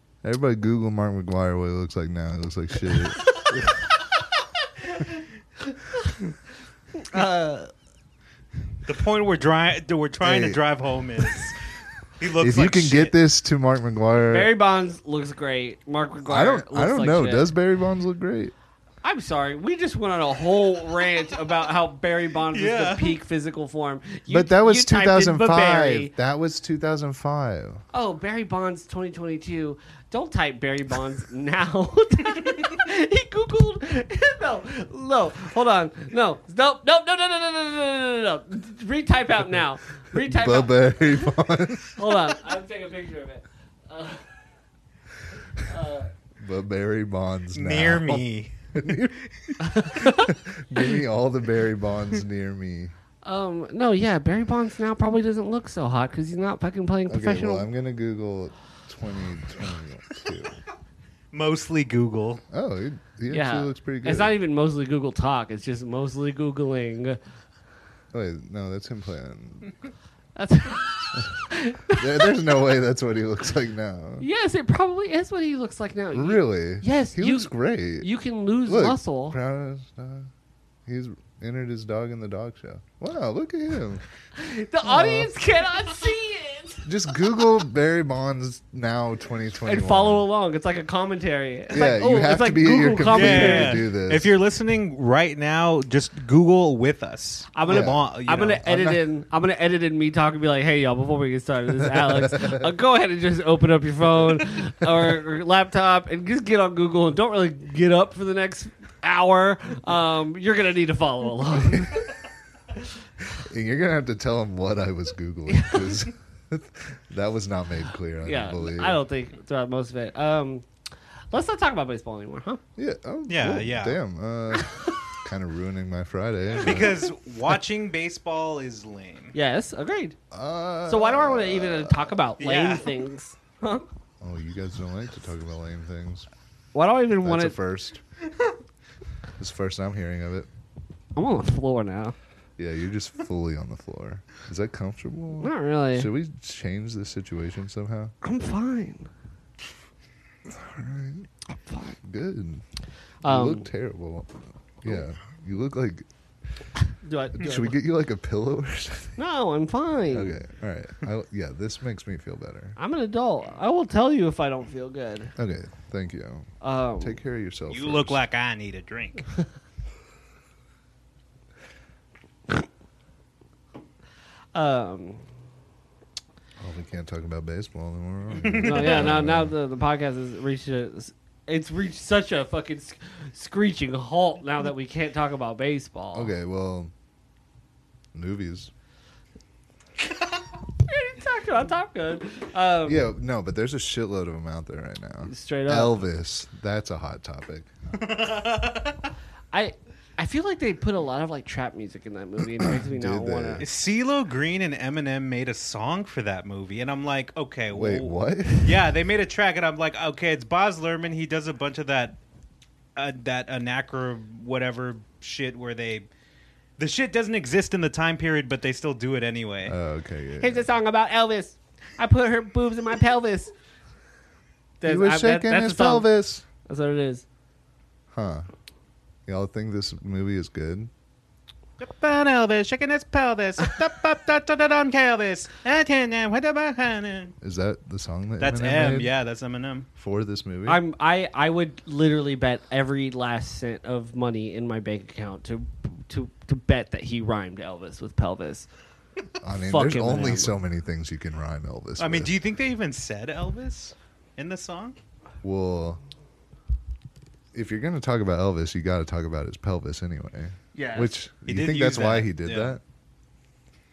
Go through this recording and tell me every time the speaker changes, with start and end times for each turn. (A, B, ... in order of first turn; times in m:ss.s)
0:00.2-0:03.8 A
0:06.9-0:07.7 B
0:08.8-0:11.6 C
0:10.2-0:10.6 A
0:12.2-0:13.2 C
0:12.4-0:14.5 A
0:14.3-0:17.5 B
0:16.3-0:18.5 A
0:19.0-0:26.1 B
0:22.5-0:23.2 C
0:24.3-0:27.8 A
0:27.9-0:41.4 B
0:40.1-0:42.3 A
0:42.0-0:44.2 B
0:45.6-0:46.1 B
0:46.4-0:53.0 A
0:47.5-0:49.0 C
0:49.6-0:50.3 B
0:53.2-0:57.7 B
0:57.1-1:00.6 A
1:01.3-1:02.4 C
1:02.5-1:04.4 A
1:03.3-1:07.2 B
1:08.1-1:09.7 A
1:10.4-1:12.3 B
1:11.9-1:14.2 A
1:14.2-1:19.4 B
1:16.1-1:18.1 A
1:18.6-1:20.3 A
1:20.9-1:24.0 A
1:24.4-1:26.9 B
1:24.8-1:25.3 A
1:26.8-1:30.3 A
1:29.6-1:33.8 B
1:31.7-1:34.4 A
1:33.1-1:38.6 C
1:37.5-1:52.1 B
1:37.7-1:39.0 A
1:41.8-1:42.7 A
1:53.4-1:59.0 A
1:55.5-1:56.0 B
1:58.2-2:00.7 B
2:01.3-2:02.6 B
2:02.8-2:07.1 A
2:03.3-2:04.0 C
2:06.6-2:09.4 C
2:09.3-2:10.2 B
2:10.3-2:12.1 A
2:10.9-2:13.9 B
2:12.4-2:12.9 C
2:14.2-2:16.3 A
2:16.7-2:17.6 B
2:17.2-2:18.0 A
2:19.4-2:20.5 A
2:21.2-2:22.2 B
2:22.6-2:28.1 A
2:25.4-2:26.1 B
2:28.2-2:29.1 B
2:30.5-2:31.3 A
2:31.5-2:32.0 B
2:32.0-2:32.6 A
2:33.2-2:33.7 B
2:33.2-2:36.1 A
2:37.0-2:37.8 B
2:37.4-2:39.2 A
2:39.2-2:40.4 B
2:40.1-2:42.8 A
2:42.8-2:45.3 B
2:45.4-2:48.2 A
2:46.6-2:47.2 B
2:47.7-2:49.3 C
2:54.5-2:55.2 B
2:56.6-2:59.6 A
2:58.4-2:59.1 C
2:58.6-3:06.3 B
3:06.1-3:06.9 A
3:08.1-3:08.7 A
3:10.8-3:13.1 B
3:12.8-3:17.7 A
3:15.2-3:16.0 B
3:17.9-3:19.1 C
3:19.5-3:23.6 B
3:22.6-3:23.7 A
3:23.6-3:32.2 C
3:27.7-3:28.9 A
3:33.0-3:36.1 C
3:36.8-3:39.8 C
3:39.7-3:40.7 A
3:40.4-3:43.5 B
3:44.8-3:46.1 B
3:44.8-3:46.4 A
3:46.6-3:47.2 B
3:48.1-3:48.5 A
3:49.3-3:50.9 A
3:51.8-3:57.3 C
3:57.4-3:59.1 A
3:58.4-3:59.9 C
4:00.0-4:00.8 A
4:00.7-4:08.7 B
4:09.4-4:12.4 A
4:09.6-4:10.5 B
4:12.0-4:15.0 C
4:15.4-4:16.0 A
4:17.5-4:22.8 A
4:20.8-4:21.2 B
4:21.5-4:22.8 C